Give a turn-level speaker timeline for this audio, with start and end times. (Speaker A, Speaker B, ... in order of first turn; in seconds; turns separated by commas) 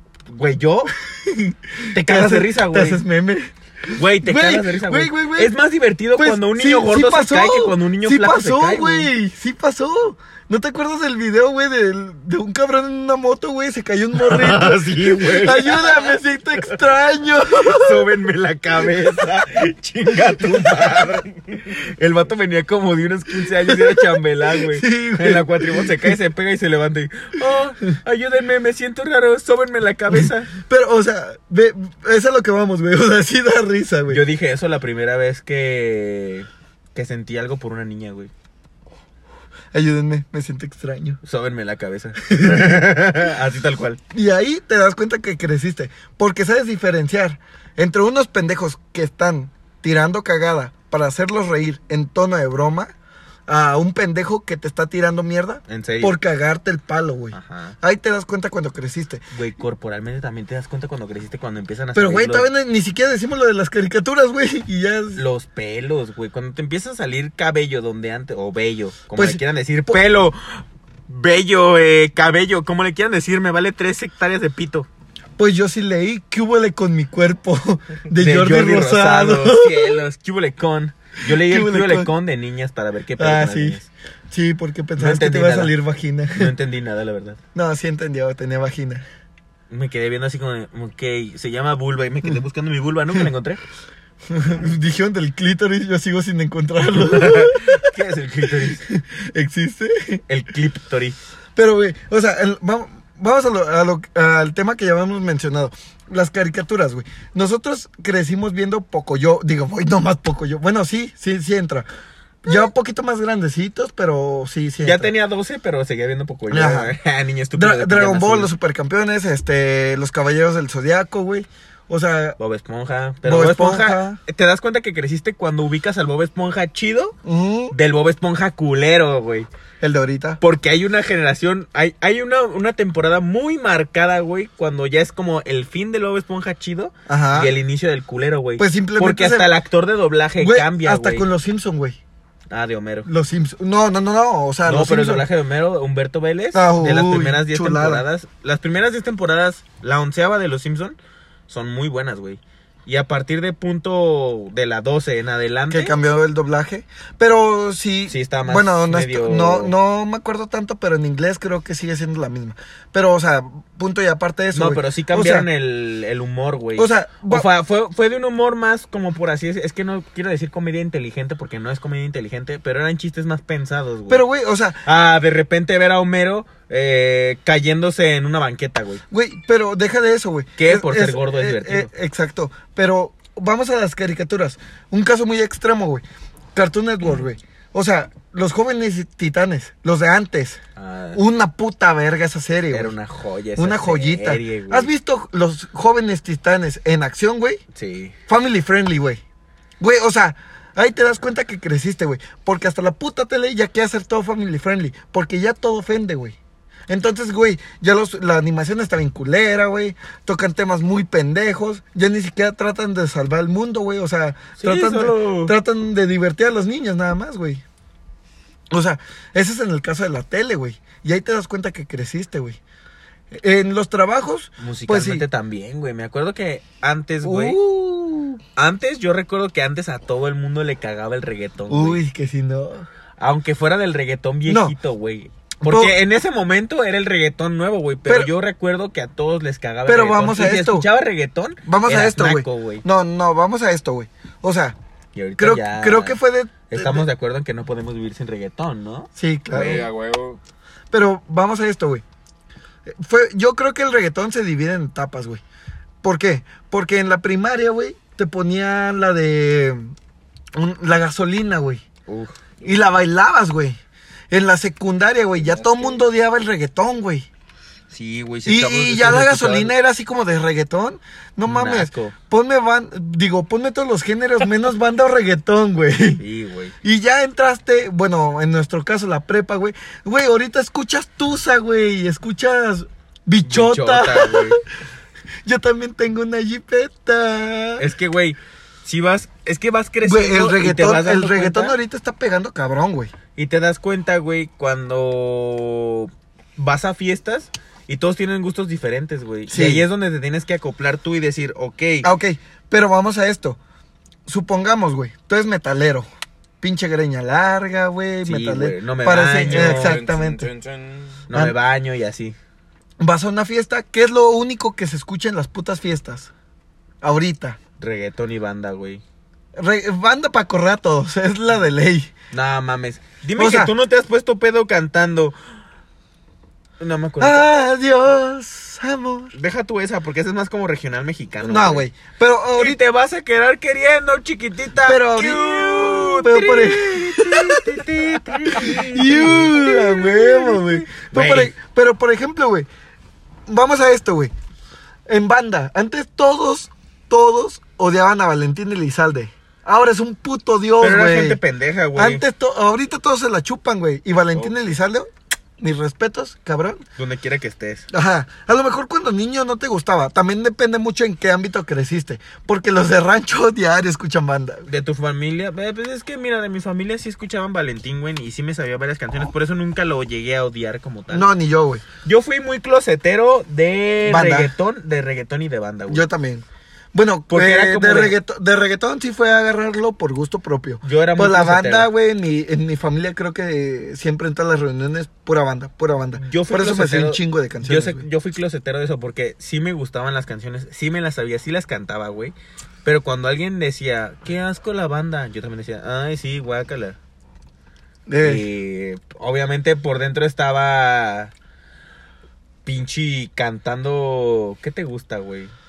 Speaker A: 0.3-0.9, Speaker B: 1.1-5.5, Speaker A: 1.9-3.0, Speaker A: 4.0-9.1, Speaker B: 6.2-18.1, Speaker A: 14.2-16.2, Speaker A: 17.6-30.5, Speaker B: 23.7-26.2, Speaker B: 30.6-34.2, Speaker A: 34.1-38.3, Speaker B: 39.7-41.2, Speaker A: 41.2-44.0, Speaker B: 42.3-42.8, Speaker B: 44.1-52.9, Speaker B: 53.5-59.2, Speaker A: 55.7-56.2, Speaker A: 57.3-57.8, Speaker A: 59.3-62.5, Speaker B: 61.9-65.2, Speaker A: 65.2-74.9, Speaker B: 69.1-70.0, Speaker B: 75.4-80.0, Speaker A: 78.2-83.9, Speaker B: 81.3-82.1, Speaker B: 83.2-86.5, Speaker A: 85.0-85.7, Speaker A: 86.3-87.4, Speaker B: 87.5-89.0, Speaker A: 89.7-93.6, Speaker B: 94.3-97.9, Speaker A: 96.9-98.8, Speaker B: 98.6-100.2, Speaker A: 100.3-101.2, Speaker B: 101.5-111.9, Speaker B: 112.4-115.1, Speaker A: 114.8-118.5, Speaker B: 116.5-116.9, Speaker B: 117.5-122.4, Speaker A: 122.4-127.2, Speaker B: 123.2-124.2, Speaker B: 127.2-127.7, Speaker A: 127.7-129.5, Speaker B: 129.8-130.4, Speaker A: 130.4-141.2, Speaker B: 137.1-137.5, Speaker B: 138.6-139.5, Speaker B: 140.4-142.0, Speaker A: 142.5-143.1, Speaker B: 143.1-145.2, Speaker A: 144.7-151.0, Speaker B: 146.5-148.0, Speaker A: 151.5-155.9, Speaker B: 155.7-165.5, Speaker A: 158.1-159.7, Speaker A: 164.5-174.2, Speaker B: 166.8-167.5, Speaker B: 174.1-174.8, Speaker A: 174.8-179.0, Speaker B: 179.1-186.0, Speaker A: 180.6-181.9, Speaker B: 186.5-190.6, Speaker A: 190.8-191.2, Speaker B: 191.1-192.9, Speaker A: 192.7-194.9, Speaker B: 193.6-197.6, Speaker A: 197.7-198.2, Speaker B: 198.3-199.2, Speaker B: 199.8-206.4, Speaker B: 206.9-217.6, Speaker A: 214.6-215.5, Speaker B: 218.7-222.6, Speaker B: 223.3-225.2, Speaker A: 224.6-227.6, Speaker B: 227.2-228.4, Speaker A: 228.6-232.0, Speaker B: 231.7-232.9, Speaker A: 233.2-242.8, Speaker B: 234.5-234.8, Speaker B: 235.6-235.9, Speaker B: 238.1-238.3, Speaker B: 239.8-240.9, Speaker B: 241.6-244.8, Speaker A: 245.1-246.2, Speaker B: 245.4-247.1, Speaker A: 246.7-249.9, Speaker B: 249.2-249.9, Speaker C: 249.5-250.4, Speaker B: 250.9-252.0, Speaker B: 252.9-255.4, Speaker B: 256.0-259.9, Speaker B: 260.6-261.8, Speaker A: 262.1-262.6, Speaker B: 262.6-263.8, Speaker B: 264.3-267.3, Speaker A: 265.4-266.0, Speaker A: 267.9-269.7, Speaker B: 268.4-276.2, Speaker A: 271.4-272.1, Speaker A: 276.2-276.7, Speaker B: 276.8-284.6, Speaker A: 283.4-284.6, Speaker B: 285.4-287.9, Speaker A: 287.8-291.8, Speaker B: 290.0-293.1, Speaker A: 293.4-302.1, Speaker B: 299.5-299.8, Speaker B: 302.0-303.6, Speaker B: 304.2-306.1, Speaker B: 306.6-310.5, Speaker A: 308.2-310.0, Speaker C: 309.4-311.2, Speaker A: 311.3-312.4, Speaker B: 313.0-316.3, Speaker B: 317.0-317.6, Speaker A: 317.8-319.0, Speaker B: 319.6-322.1, Speaker A: 322.3-325.4, Speaker B: 323.4-323.7, Speaker A: 326.8-327.5, Speaker B: 327.2-329.3, Speaker A: 329.3-331.9, Speaker B: 331.4-332.8, Speaker A: 332.5-341.5, Speaker B: 334.8-337.8, Speaker B: 338.5-342.7, Speaker B: 343.5-344.3, Speaker B: 345.1-351.4, Speaker A: 350.8-352.2, Speaker B: 351.9-356.8, Speaker A: 357.0-357.9, Speaker B: 357.9-364.7, Speaker A: 364.7-371.3, Speaker B: 371.1-371.8, Speaker A: 372.0-376.0, Speaker B: 374.0-374.5, Speaker B: 375.9-388.0, Speaker A: 377.3-378.2, Speaker A: 380.8-381.9, Speaker A: 386.2-397.0, Speaker B: 398.1-398.4, Speaker A: 398.2-401.3, Speaker A: 402.6-405.5